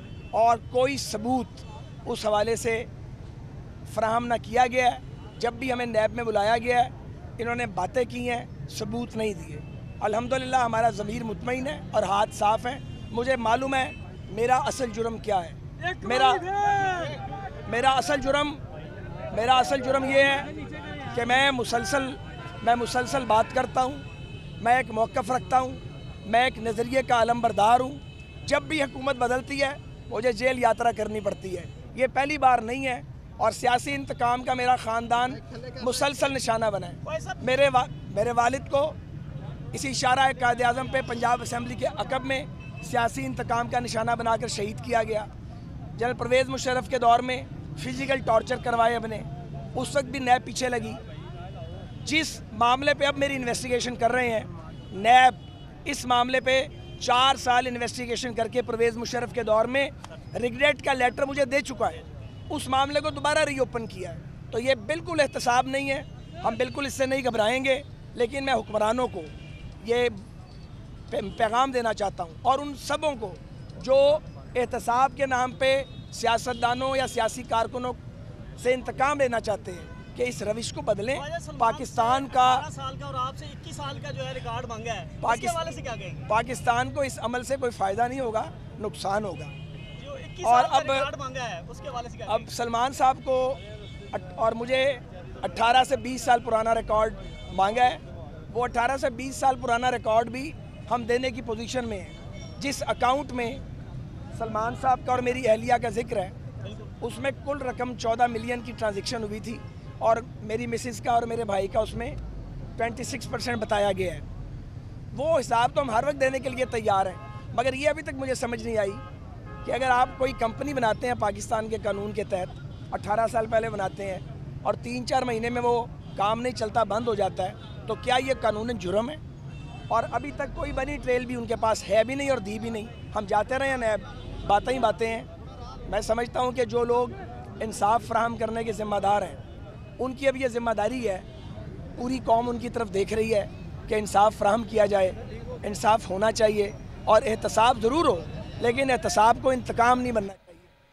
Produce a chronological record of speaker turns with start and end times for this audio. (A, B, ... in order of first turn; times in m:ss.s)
0:00.3-0:02.9 A
0:03.9-0:16.6 A
0:16.8-0:17.1 B
0:17.7-0:18.6 A
0:19.3-0:20.5 A
0:21.1-0:24.0 A
0:24.6-0:39.0 A
0:37.0-0:37.4 B
0:39.7-0:45.3 A
0:46.0-0:51.0 A
0:52.0-1:10.2 A
1:11.1-1:18.0 A
1:18.6-1:22.6 A
1:21.1-1:26.3 B
1:25.2-1:25.6 A
1:26.3-1:29.5 A
1:30.0-1:32.5 B
1:30.4-1:31.1 A
1:32.2-1:33.6 A
1:34.1-1:43.6 A
1:44.3-1:46.3 A
1:46.6-1:46.9 B
1:47.0-1:52.2 A
1:52.8-1:54.2 A
1:55.1-1:59.0 A
1:59.6-2:09.2 A
2:09.9-2:15.3 A
2:15.9-2:19.4 A
2:20.0-2:21.2 A
2:22.0-2:30.7 A